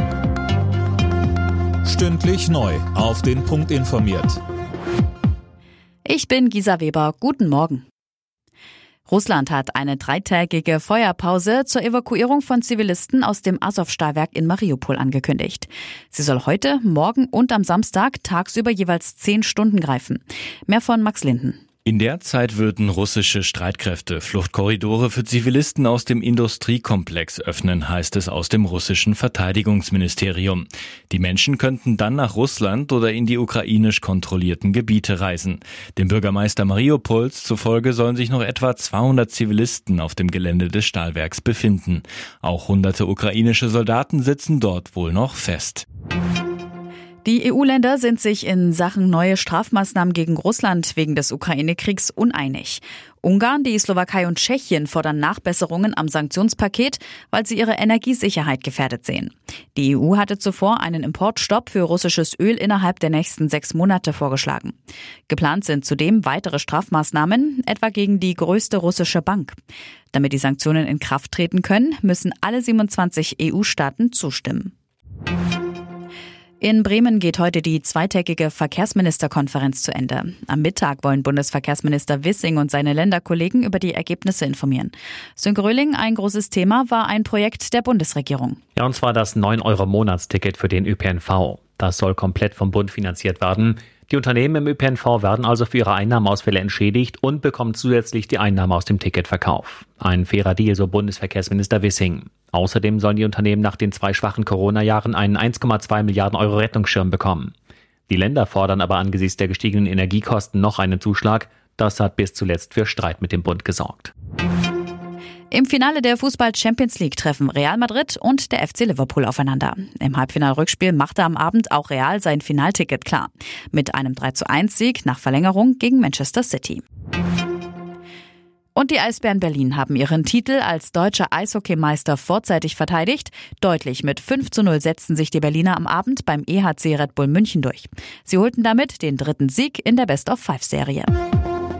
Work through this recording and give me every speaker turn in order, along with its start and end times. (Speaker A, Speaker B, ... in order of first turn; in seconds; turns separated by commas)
Speaker A: 1.8-4.4, Speaker B: 6.0-7.8, Speaker B: 9.1-21.6, Speaker C: 21.9-45.8, Speaker B: 47.2-64.8, Speaker B: 65.3-69.6, Speaker B: 70.1-74.7, Speaker B: 76.6-88.6, Speaker D: 88.8-107.5, Speaker D: 108.1-114.1, Speaker B: 115.5-126.8, Speaker B: 128.7-141.1